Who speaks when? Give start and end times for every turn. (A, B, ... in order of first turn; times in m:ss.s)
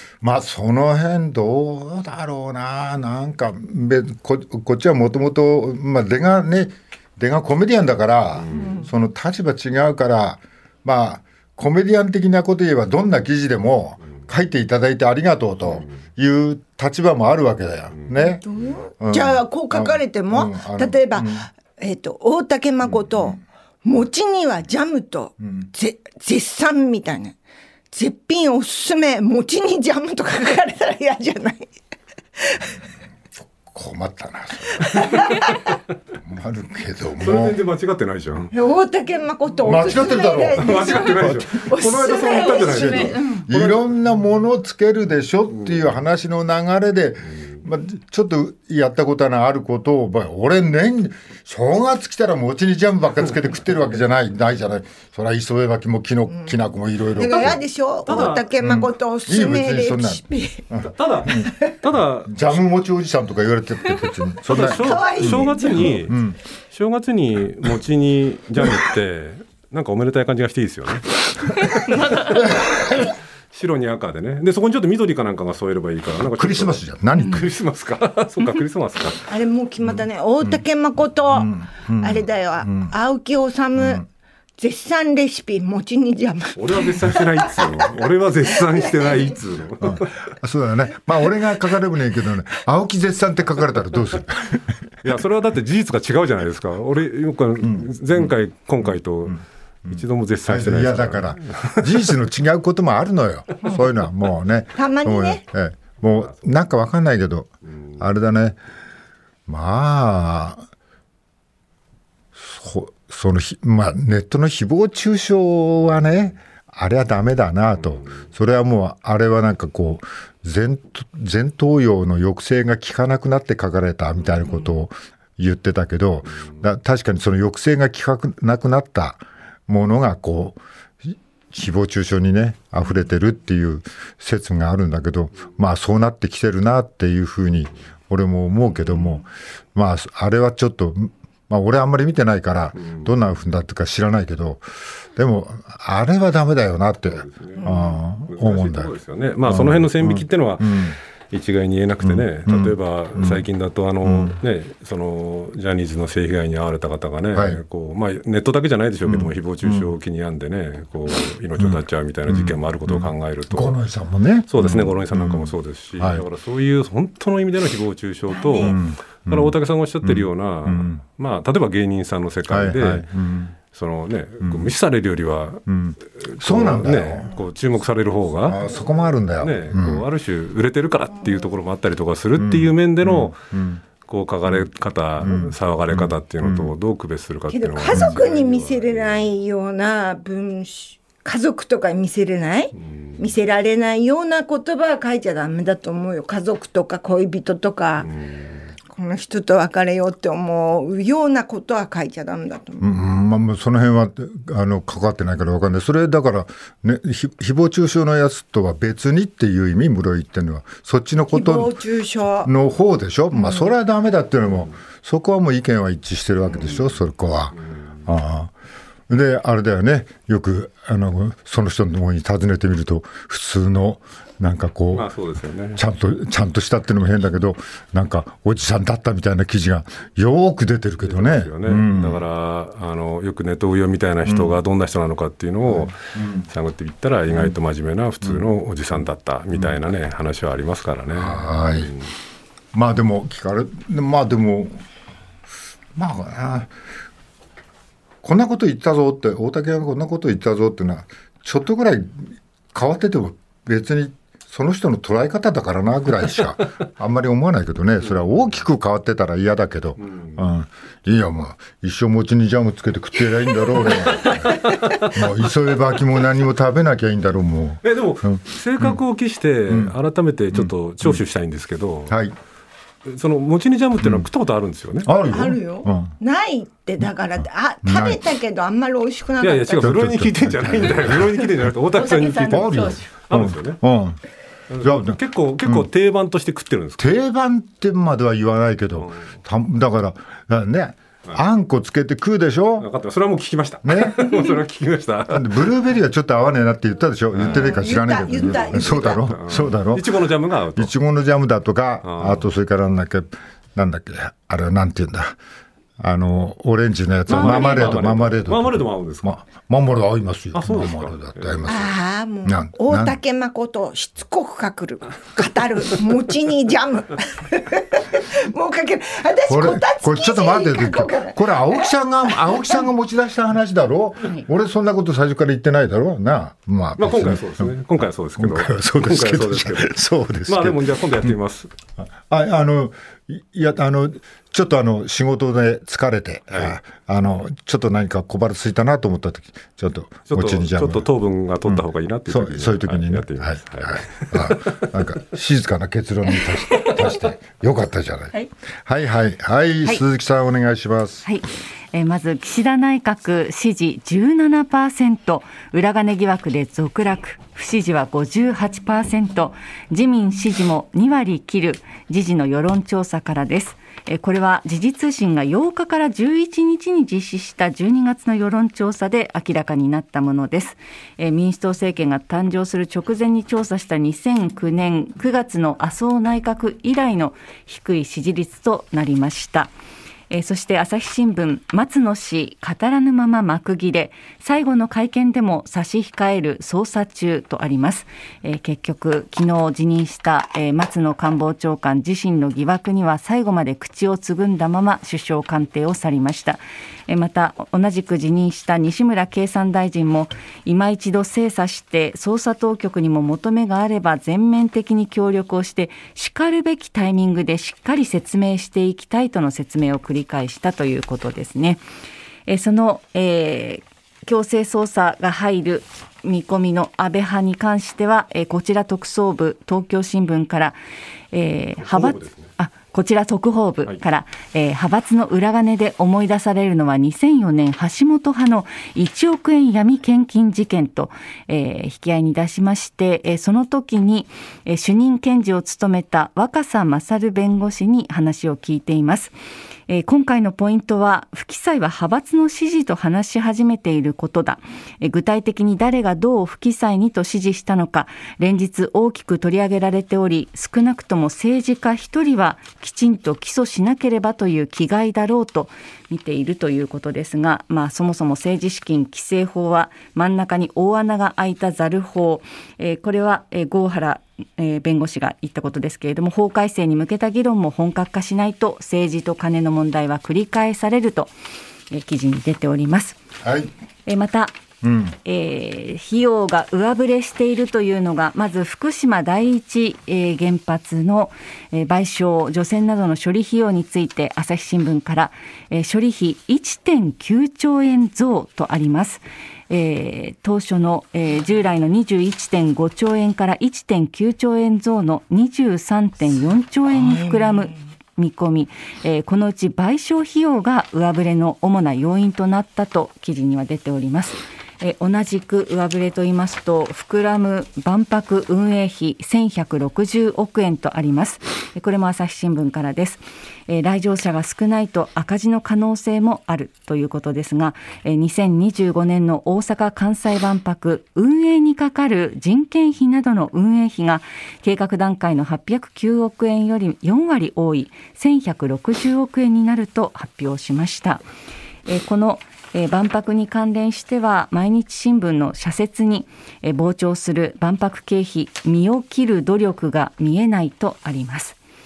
0:00.2-0:18.4 A
0:08.5-0:08.9 B
0:18.0-0:18.3 C
0:18.4-0:27.4 B
0:19.0-0:21.5 A
0:27.9-0:31.7 B
0:32.4-0:32.7 B
0:33.6-0:35.5 A
0:34.8-0:35.6 B
0:36.2-0:37.6 A
0:37.2-0:38.5 C
0:38.5-0:43.4 B
0:39.6-0:41.5 A
0:40.6-0:43.8 C
0:42.6-0:57.6 A
0:57.1-1:00.6 B
0:58.1-0:58.5 C
0:58.2-1:01.6 A
1:01.0-1:02.6 C
1:02.3-1:06.4 A
1:04.4-1:06.2 C
1:04.5-1:06.0 B
1:06.7-1:19.3 C
1:16.4-1:17.5 A
1:19.3-1:24.0 B
1:21.3-1:22.9 A
1:23.8-1:24.0 A
1:24.6-1:28.1 B
1:26.6-1:30.2 C
1:28.7-1:29.4 B
1:29.8-1:34.8 A
1:35.0-1:42.1 C
1:37.6-1:37.9 A
1:39.9-1:48.6 A
1:44.8-1:45.4 B
1:49.5-1:50.6 A
1:52.4-2:24.6 A
2:22.8-2:23.1 C
2:25.2-2:28.9 A
2:27.1-2:43.8 C
2:27.6-2:28.0 B
2:29.5-2:31.0 A
2:32.0-2:33.4 A
2:34.0-2:34.4 A
2:37.3-2:37.6 A
2:39.1-2:39.9 A
2:41.6-2:46.2 A
2:44.5-2:53.1 C
2:48.3-2:48.8 B
2:48.6-2:51.0 A
2:52.5-2:53.5 A
2:53.7-2:58.6 C
2:54.4-2:54.7 A
2:55.7-2:57.3 A
2:58.4-3:00.0 A
2:59.4-3:03.4 C
3:02.4-3:03.8 A
3:04.1-3:09.3 C
3:05.2-3:06.7 A
3:07.5-3:18.1 B
3:07.9-3:08.2 A
3:12.8-3:13.2 C
3:18.0-3:18.6 C
3:18.9-3:22.8 B
3:22.8-3:31.8 A
3:31.3-3:32.5 B
3:32.4-3:38.5 A
3:33.3-3:33.7 B
3:36.6-3:36.9 C
3:39.1-3:45.1 A
3:44.9-3:45.8 C
3:45.8-3:52.2 A
3:51.0-4:02.1 C
3:54.3-3:54.5 A
3:55.7-3:56.5 A
4:01.1-4:02.0 A
4:02.7-4:04.8 A
4:06.0-4:06.7 A
4:08.2-4:29.0 A
4:20.0-4:20.5 C
4:24.2-4:25.1 C
4:27.8-4:32.2 C
4:29.7-4:29.9 A
4:30.5-4:31.2 A
4:32.1-4:32.3 A
4:33.1-4:35.1 C
4:35.0-4:36.1 A
4:35.2-4:40.0 B
4:37.8-4:38.2 A
4:39.4-4:43.8 C
4:39.8-4:41.6 A
4:42.0-4:43.0 D
4:42.4-4:44.2 A
4:44.7-4:47.1 C
4:44.8-4:45.9 A
4:47.0-4:52.9 A
4:52.8-4:55.7 C
4:53.8-4:54.3 A
4:55.3-5:00.2 A
4:57.3-5:00.9 C
4:57.4-4:59.3 B
5:00.8-5:05.4 A
5:02.0-5:02.5 C
5:06.0-5:13.2 A
5:07.3-5:09.4 C
5:07.3-5:08.0 B
5:10.5-5:11.7 C
5:11.6-5:22.9 B
5:19.5-5:27.7 A
5:27.0-5:30.0 C
5:28.4-5:31.4 A
5:30.5-5:31.7 C
5:32.2-5:41.1 A
5:36.5-5:36.8 C
5:40.3-5:44.9 C
5:41.7-5:48.3 A
5:48.9-5:51.3 A
5:51.2-6:19.7 D
6:20.3-6:51.8 D
6:52.5-7:00.8 D
7:01.3-7:19.3 D
7:01.8-7:02.5 C
7:19.9-7:51.3 D
7:51.9-7:53.2 D
7:53.4-7:53.7 A
7:54.1-7:54.5 D
7:54.8-7:55.2 A
7:55.2-8:51.2 D
8:16.9-8:17.8 B
8:51.9-9:01.6 D